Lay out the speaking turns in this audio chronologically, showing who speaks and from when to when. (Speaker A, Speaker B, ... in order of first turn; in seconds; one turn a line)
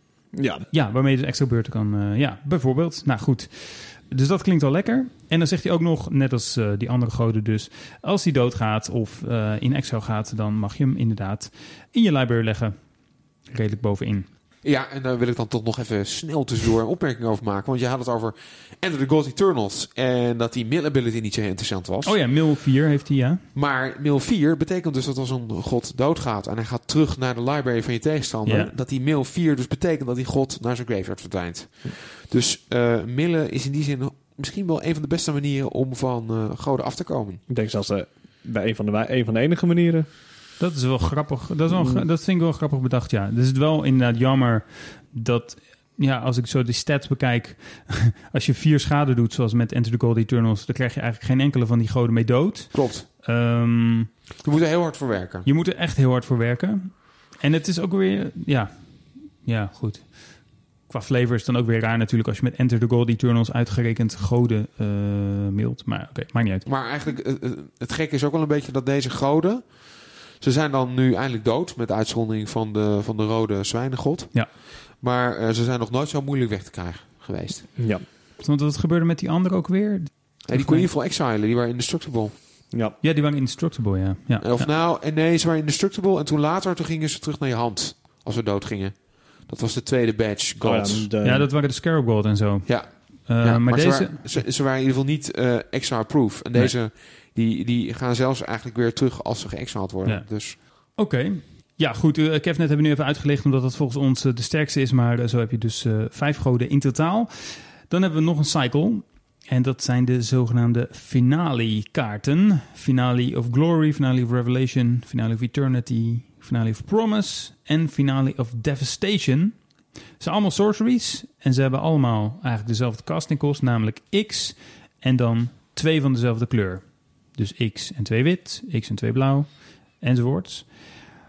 Speaker A: 0.3-0.7
Speaker B: 0.7-14.3
Speaker C: 14.6-22.2
Speaker B: 22.0-23.4
Speaker C: 23.5-37.4
Speaker B: 28.4-28.7
Speaker A: 37.5-40.0
Speaker B: 40.6-54.1
Speaker A: 41.7-42.0
Speaker C: 52.7-53.1
Speaker C: 54.4-55.5
Speaker B: 55.4-66.7
Speaker C: 66.6-77.7
Speaker A: 77.8-78.0
Speaker B: 78.4-80.9
Speaker C: 80.4-82.3
Speaker A: 82.7-83.0
Speaker B: 83.0-84.7
Speaker C: 84.4-91.1
Speaker A: 90.6-91.5
Speaker B: 91.2-94.4
Speaker C: 92.7-100.6
Speaker B: 100.0-131.0